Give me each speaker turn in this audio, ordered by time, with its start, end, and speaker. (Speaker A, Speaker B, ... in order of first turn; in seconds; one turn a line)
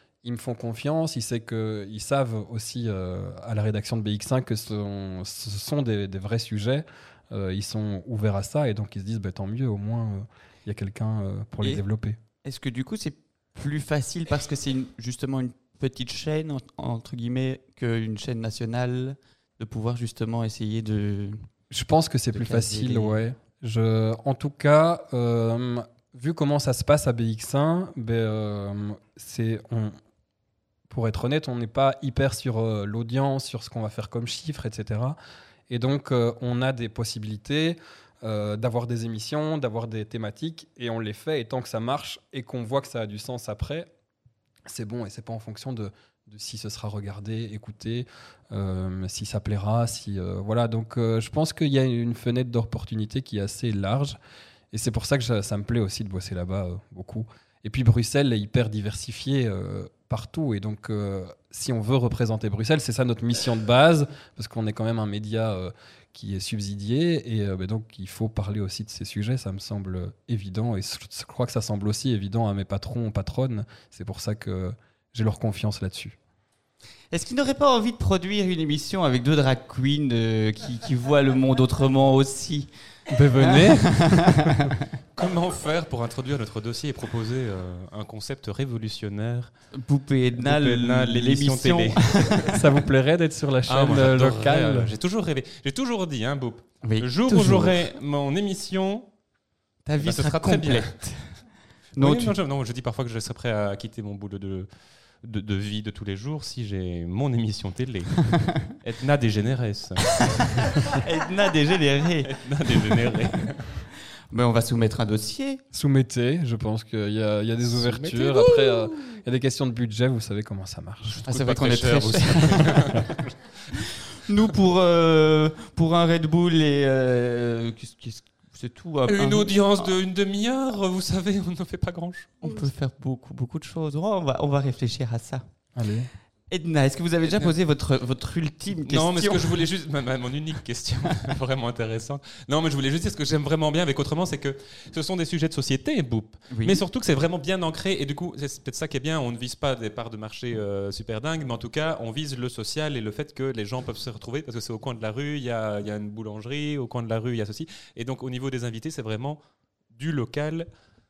Speaker A: 0.2-12.2
Speaker B: 12.4-21.4
Speaker A: 21.7-30.0
Speaker B: 22.3-23.2
Speaker A: 30.9-35.2
Speaker A: 35.7-43.9
Speaker A: 44.7-54.2
Speaker A: 54.7-76.2
Speaker B: 77.1-82.7
Speaker A: 83.1-84.5
Speaker B: 83.3-84.8
Speaker C: 85.1-89.5
Speaker B: 89.7-92.6
Speaker C: 90.4-92.6
Speaker A: 92.5-94.9
Speaker C: 93.7-99.1
Speaker B: 96.8-97.8
Speaker B: 99.8-101.4
Speaker C: 100.0-101.0
Speaker B: 102.0-102.3
Speaker C: 102.0-104.7
Speaker C: 105.2-110.8
Speaker B: 110.1-113.2
Speaker C: 112.2-113.8
Speaker B: 114.3-115.6
Speaker A: 115.7-121.2
Speaker C: 117.7-118.9
Speaker B: 121.1-123.1
Speaker C: 121.2-123.8
Speaker B: 123.7-129.9
Speaker C: 129.1-132.4
Speaker B: 132.4-135.4
Speaker A: 135.8-136.1
Speaker B: 136.5-139.6
Speaker C: 138.8-159.4
Speaker B: 146.5-146.8
Speaker C: 159.9-160.7